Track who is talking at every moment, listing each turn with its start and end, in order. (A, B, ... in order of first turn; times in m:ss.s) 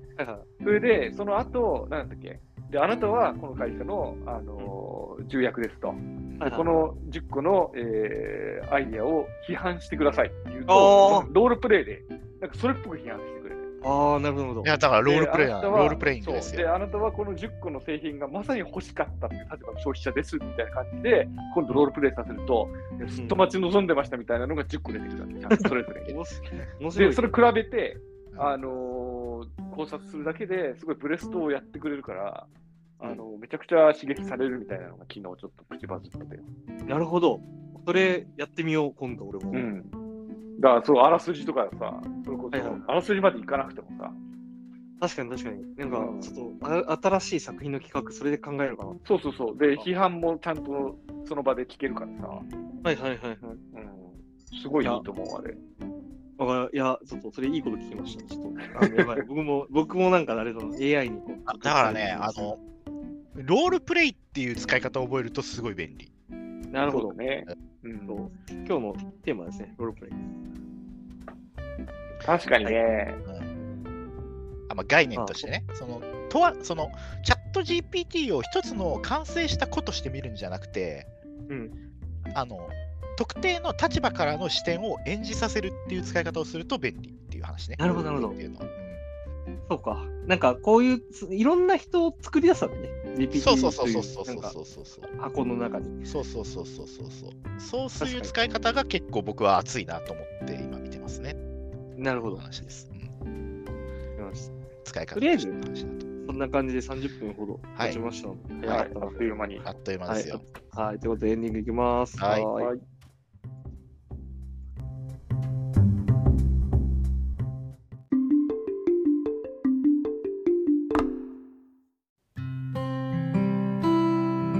0:00.2-0:00.4 A
0:00.6-0:13.7 B
0:06.4-0:06.7 A
0:10.7-0:11.3 A
0:13.8-0:14.8 A
0:14.6-0:16.7 C
0:15.0-0:26.2 B
0:23.1-0:23.4 A
0:25.5-0:27.3 A
0:26.9-0:32.5 B
0:33.0-0:36.4 B
0:36.9-0:39.7 A
0:39.5-0:39.9 B
0:40.6-0:44.2 B
0:42.5-0:42.8 A
0:45.0-0:49.0 A
0:45.9-0:46.3 B
0:49.0-0:52.4 B
0:52.8-0:53.6 A
0:53.7-0:55.6 B
0:56.4-1:02.5 A
0:58.7-0:59.2 B
1:01.5-1:02.6 C
1:03.3-1:06.1 C
1:06.7-1:07.2 A
1:06.9-1:08.2 B
1:08.1-1:10.2 A
1:12.2-1:13.2 B
1:14.7-1:21.1 C
1:15.1-1:15.5 A
1:22.3-1:29.0 C
1:27.8-1:28.4 A
1:29.7-1:34.6 A
1:33.3-1:35.1 C
1:35.1-1:36.0 A
1:36.0-1:41.4 C
1:38.0-1:38.3 A
1:42.0-1:42.4 A
1:42.2-1:43.1 C
1:44.2-1:44.5 A
1:44.8-1:46.4 C
1:45.1-1:45.6 A
1:46.2-1:49.2 A
1:48.6-1:49.6 B
1:49.6-1:50.4 C
1:50.1-1:52.7 A
1:52.2-1:52.5 C
1:52.6-1:52.8 B